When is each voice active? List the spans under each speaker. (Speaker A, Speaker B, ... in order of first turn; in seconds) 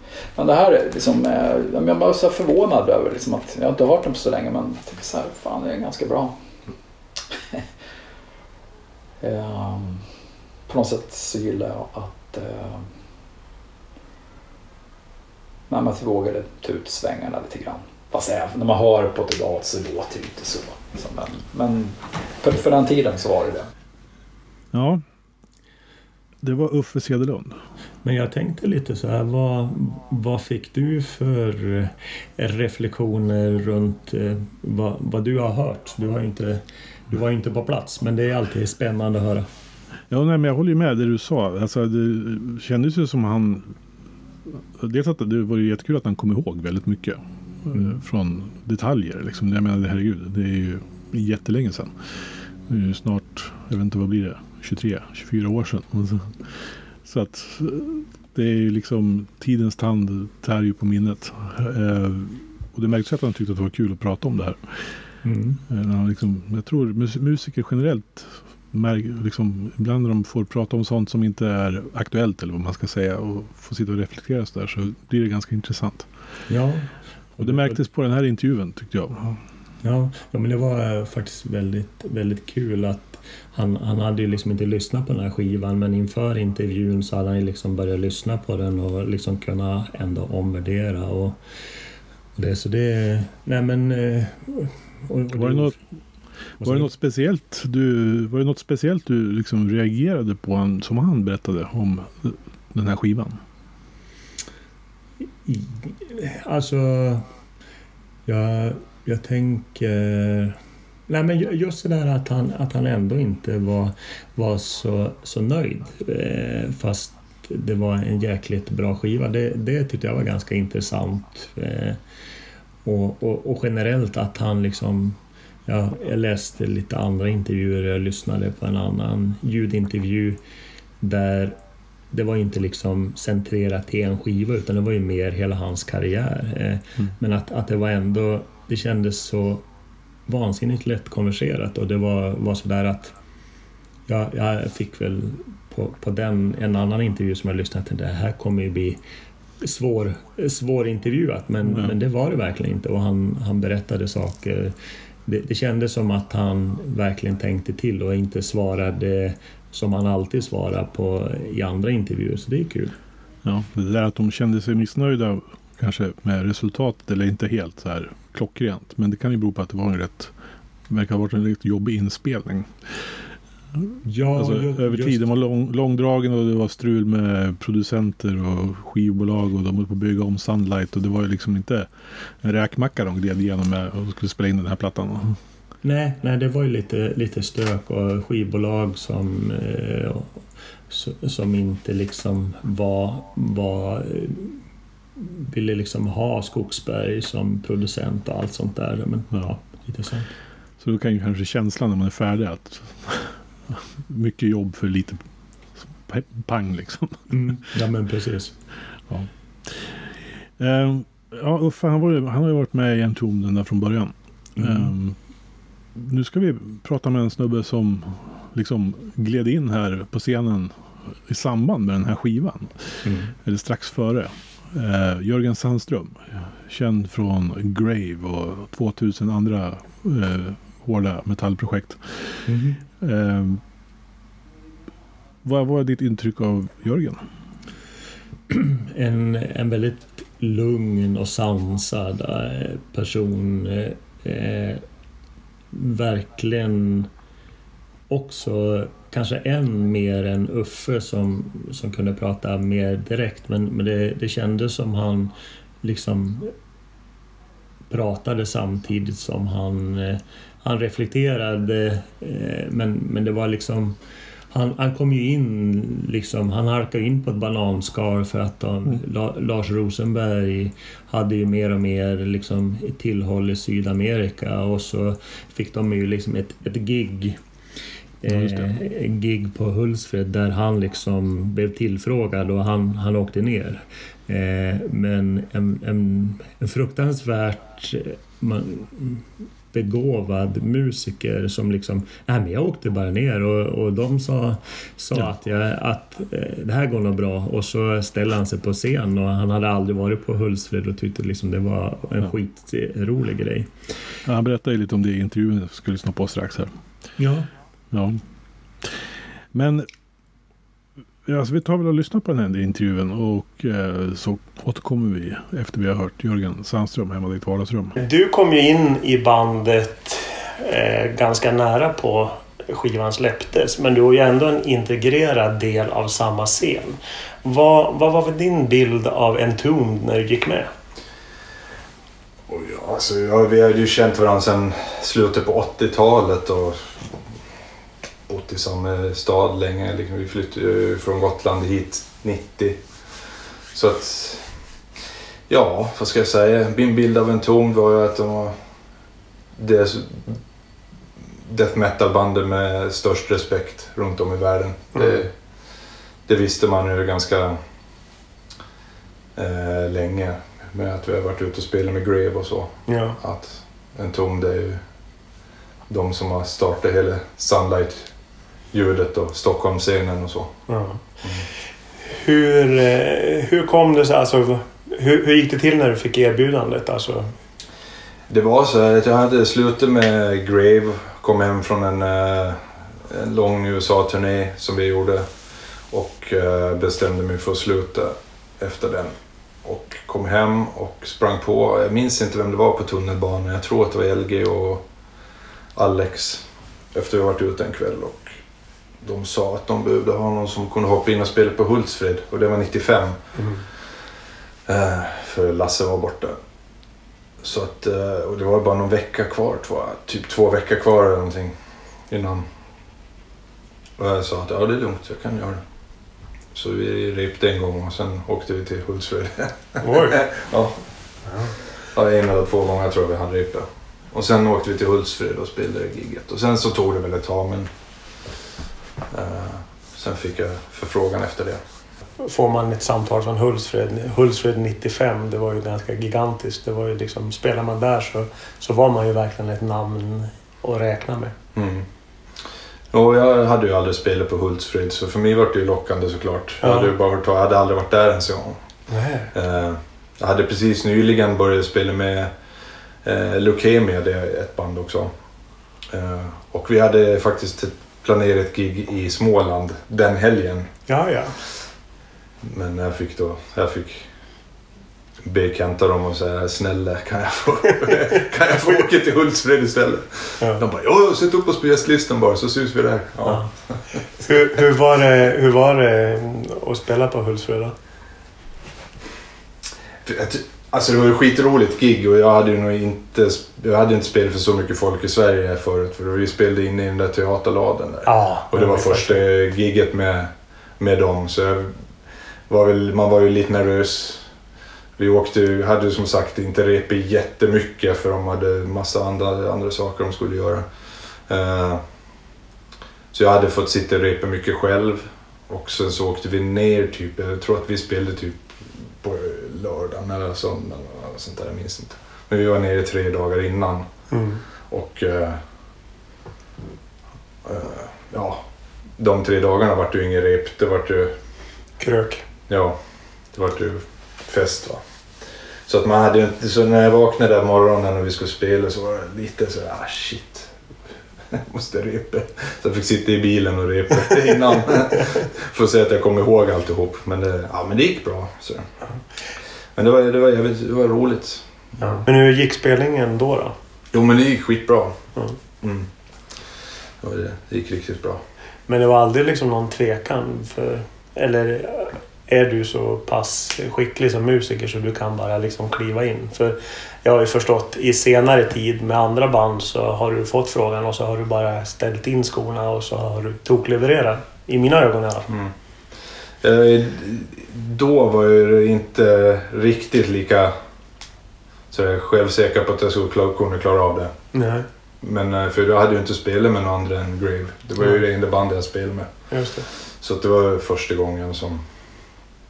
Speaker A: 0.4-6.3, 7.3-7.7, 9.2-10.1, 10.7-12.9, 15.7-23.7
Speaker B: 24.7-25.0, 26.4-27.6, 40.1-43.8, 44.8-65.1, 65.7-76.1, 77.4-79.4, 95.3-95.8, 96.6-103.4, 151.7-151.9, 163.4-170.3, 170.9-173.2, 173.8-185.4, 200.8-205.2, 205.8-207.6, 209.1-210.0, 210.6-215.2, 215.9-233.6, 235.4-237.2, 278.3-278.8, 304.2-306.8, 307.9-308.2, 309.5-309.9, 311.3-318.0
Speaker C: 28.0-39.5, 47.7-48.0, 65.2-65.6, 76.5-77.8, 79.8-91.4, 92.4-95.8, 96.6-96.9, 105.5-107.3, 108.3-110.6, 111.1-122.0, 122.8-130.4, 131.0-131.6, 132.1-139.7, 140.3-143.1, 144.1-149.0, 149.6-163.0, 174.1-175.3, 185.8-194.6, 195.2-200.3, 207.3-208.6, 214.6-214.9, 223.1-223.3, 232.5-232.8, 238.5-244.8, 245.7-247.1, 248.1-256.5, 257.9-264.0, 264.5-277.4, 278.2-303.7, 307.2-307.5
Speaker D: 318.0-330.7, 354.9-355.2, 362.9-363.2, 370.7-371.1, 372.1-377.3, 403.4-403.6, 419.8-420.2, 421.3-421.6, 432.2-441.4, 446.6-446.9, 448.9-449.3, 460.9-461.4, 473.2-473.5, 474.1-477.8, 488.1-489.2, 514.1-514.4, 521.8-522.2, 541.8-543.5, 548.7-565.3, 574.3-574.7, 579.3-579.7
Speaker E: 332.5-337.1, 338.3-342.8, 343.7-344.5, 345.5-348.6, 349.6-350.4, 351.5-355.3, 356.3-357.6, 359.4-364.8, 365.9-368.1, 368.7-370.5, 371.2-371.5, 378.3-385.3, 385.9-394.9, 395.8-398.4, 399.0-403.2, 404.7-406.4, 407.4-412.5, 414.0-415.6, 416.5-420.8, 421.9-427.7, 429.1-431.6, 441.6-441.9, 442.9-448.6, 449.3-452.3, 453.0-455.1, 455.9-460.7, 462.4-464.1, 465.2-474.0, 480.1-491.8, 492.5-494.3, 495.0-500.7, 501.2-501.8, 503.1-513.9, 514.7-515.4, 517.4-518.4, 519.0-521.1, 522.5-524.8, 525.7-530.6, 531.3-538.7, 539.8-542.0, 543.9-545.0, 545.6-545.9, 547.0-548.2, 566.4-570.6, 571.7-574.1, 575.0-581.7